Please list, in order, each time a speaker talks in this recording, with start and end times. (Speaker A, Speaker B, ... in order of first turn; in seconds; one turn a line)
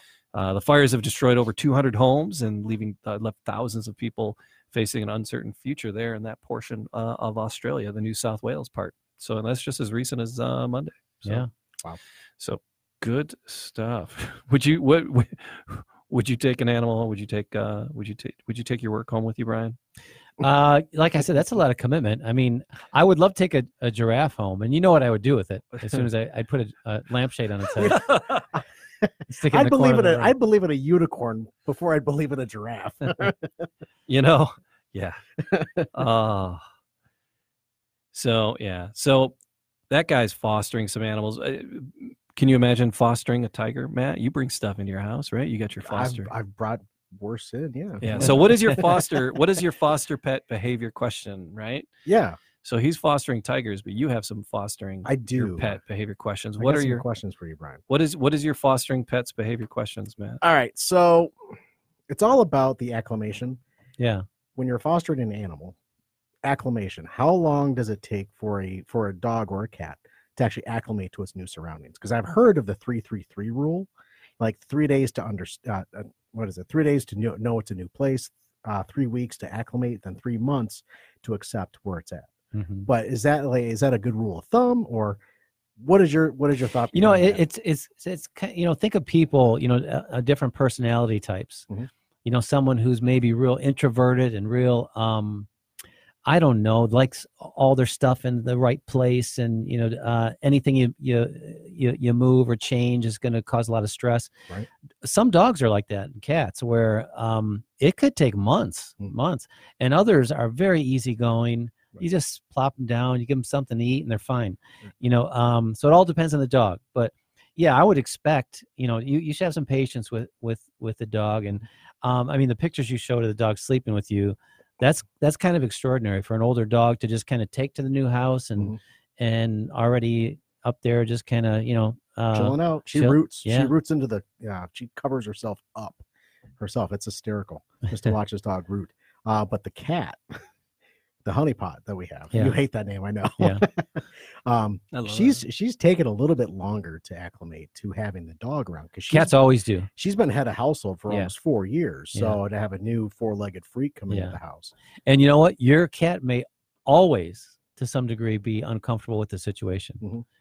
Speaker A: 0.3-11.4
Speaker A: 12.4-19.8
Speaker B: 20.4-28.0
Speaker A: 25.8-26.1
Speaker C: 27.8-33.7
Speaker A: 27.8-28.5
Speaker B: 29.3-30.4
Speaker A: 34.1-35.2
Speaker C: 35.5-35.9
Speaker A: 35.9-36.6
Speaker A: 38.1-39.4
Speaker A: 39.9-46.3
Speaker C: 45.8-49.2
Speaker A: 48.0-51.9
Speaker C: 52.1-52.4
Speaker A: 52.6-57.0
Speaker C: 55.0-55.8
Speaker C: 56.6-57.8
Speaker A: 57.9-60.4
Speaker C: 60.4-61.4
Speaker C: 62.1-63.6
Speaker B: 64.0-64.2
Speaker C: 64.6-65.8
Speaker C: 66.4-73.9
Speaker C: 74.4-82.3
Speaker B: 82.5-82.9
Speaker C: 82.9-85.2
Speaker C: 85.8-87.4
Speaker B: 86.9-91.7
Speaker B: 92.2-95.5
Speaker B: 96.3-104.3
Speaker B: 105.0-133.7
Speaker C: 132.3-136.0
Speaker C: 136.6-140.2
Speaker C: 141.2-149.4
Speaker B: 142.3-142.6
Speaker B: 143.4-143.6
Speaker A: 144.9-145.4
Speaker B: 149.1-149.9
Speaker C: 150.0-154.7
Speaker B: 152.1-152.4
Speaker B: 154.1-154.4
Speaker B: 155.1-160.0